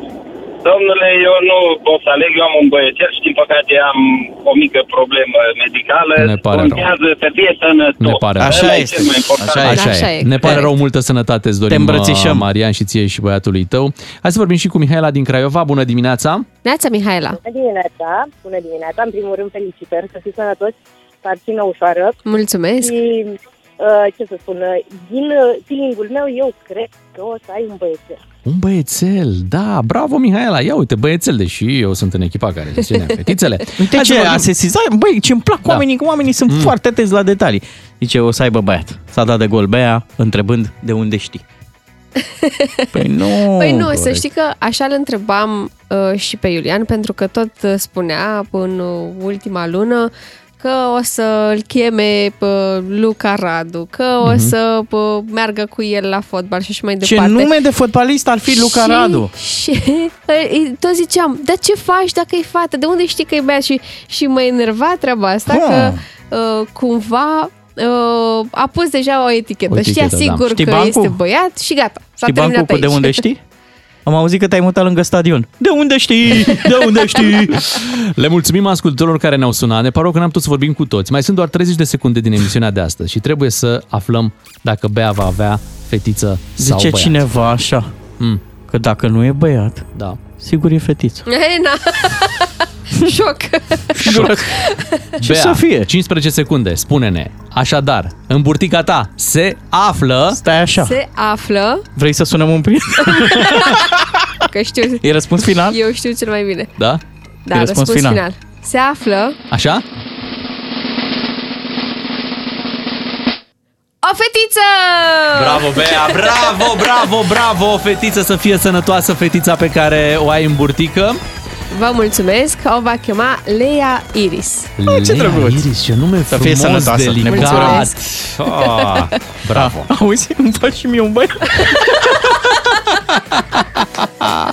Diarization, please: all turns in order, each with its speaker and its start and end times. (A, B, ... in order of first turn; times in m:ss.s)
0:00.6-0:09.7 A
0:06.2-0:06.9 B
0:08.0-0:08.8 B
0:08.4-0:10.7 C
0:09.6-0:16.5 B
0:09.7-0:10.7 D
0:11.7-0:12.5 C
0:16.6-0:17.4 D
0:17.4-0:22.2 E
0:22.2-0:23.0 D
0:22.8-0:28.2 E
0:28.4-0:34.5 B
0:33.8-0:41.4 C
0:36.5-0:36.7 B
0:42.4-0:43.0 D
0:42.9-0:44.3 C
0:43.6-0:57.5 D
0:54.2-0:54.5 B
0:57.0-0:59.3 C
0:58.5-1:13.2 D
1:05.5-1:06.0 C
1:09.7-1:10.5 B
1:10.5-1:11.2 C
1:12.2-1:13.4 C
1:14.1-1:17.7 C
1:17.2-1:27.2 B
1:26.6-1:27.9 C
1:28.7-1:29.9 C
1:30.4-1:31.2 C
1:31.3-1:34.0 D
1:34.0-1:34.6 C
1:34.0-1:34.4 B
1:34.6-1:35.1 D
1:35.2-1:35.9 C
1:35.2-1:40.4 B
1:40.4-1:41.0 C
1:40.8-1:41.8 D
1:42.0-1:43.9 C
1:43.1-1:43.9 D
1:44.5-1:45.0 D
1:45.0-1:45.8 C
1:45.6-1:46.7 D
1:47.5-1:49.4 D
1:47.5-1:48.2 C
1:49.5-1:49.8 B
1:54.0-1:56.6 D
1:55.3-2:01.2 B
2:01.7-2:04.7 D
2:04.8-2:09.9 B
2:04.9-2:05.7 C
2:06.3-2:07.9 C
2:07.3-2:08.0 D
2:09.5-2:12.6 C